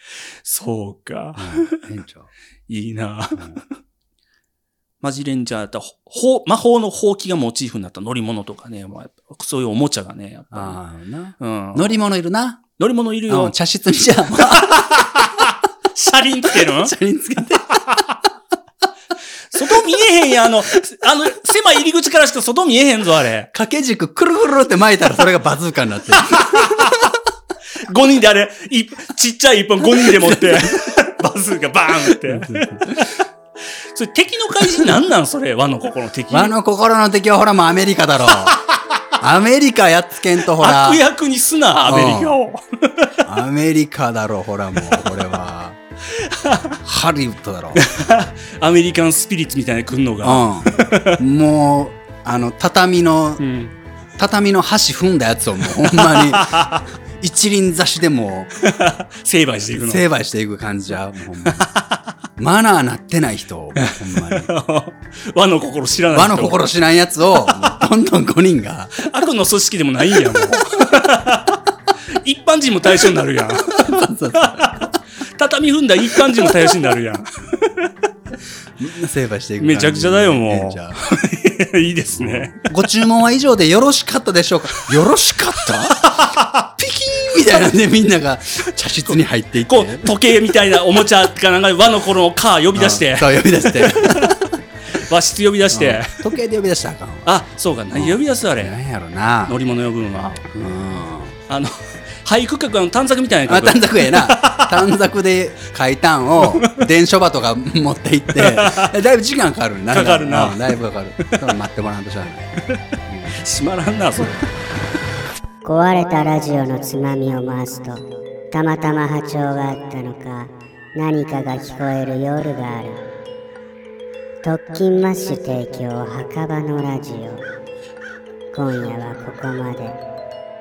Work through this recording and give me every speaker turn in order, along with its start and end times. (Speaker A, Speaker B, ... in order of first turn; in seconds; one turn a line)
Speaker A: 0.4-1.8
Speaker B: 1.4-2.3
Speaker A: 2.7-3.7
Speaker B: 3.3-3.6
Speaker A: 5.0-10.8
Speaker B: 10.5-12.6
Speaker A: 11.4-12.0
Speaker A: 12.8-13.5
Speaker B: 13.3-15.4
Speaker A: 14.3-16.9
Speaker B: 16.4-18.0
Speaker A: 17.8-18.1
Speaker A: 19.5-23.5
Speaker B: 23.5-27.1
Speaker A: 26.2-27.1
Speaker A: 27.8-33.2
Speaker B: 29.9-30.7
Speaker B: 32.1-33.0
Speaker A: 33.9-36.5
Speaker B: 36.3-38.5
Speaker A: 38.4-39.0
Speaker B: 39.2-41.0
Speaker A: 40.5-43.3
Speaker B: 41.8-42.4
Speaker B: 43.2-45.8
Speaker A: 46.1-46.8
Speaker B: 46.8-47.9
Speaker A: 47.7-51.2
Speaker B: 50.2-53.4
Speaker A: 53.4-53.7
Speaker B: 54.2-56.6
Speaker A: 55.9-56.9
Speaker B: 57.2-58.5
Speaker A: 58.6-60.0
Speaker B: 59.7-61.7
Speaker A: 61.4-62.0
Speaker B: 62.4-64.5
Speaker A: 63.8-66.6
Speaker B: 66.1-69.1
Speaker A: 67.5-67.8
Speaker A: 69.0-77.9
Speaker B: 70.3-70.6
Speaker B: 73.8-74.7
Speaker B: 76.1-76.7
Speaker B: 78.8-81.0
Speaker A: 79.6-82.7
Speaker B: 82.1-90.2
Speaker A: 85.8-86.7
Speaker A: 89.7-96.2
Speaker B: 92.7-94.6
Speaker B: 95.7-97.3
Speaker A: 97.2-98.8
Speaker B: 97.9-99.5
Speaker A: 99.5-100.4
Speaker B: 100.5-101.3
Speaker A: 101.5-104.9
Speaker B: 103.5-113.4
Speaker A: 106.5-106.9
Speaker A: 108.3-109.0
Speaker A: 109.9-110.7
Speaker A: 111.2-111.5
Speaker A: 113.4-114.4
Speaker C: 115.6-123.0
Speaker C: 124.4-127.4
Speaker C: 128.5-130.0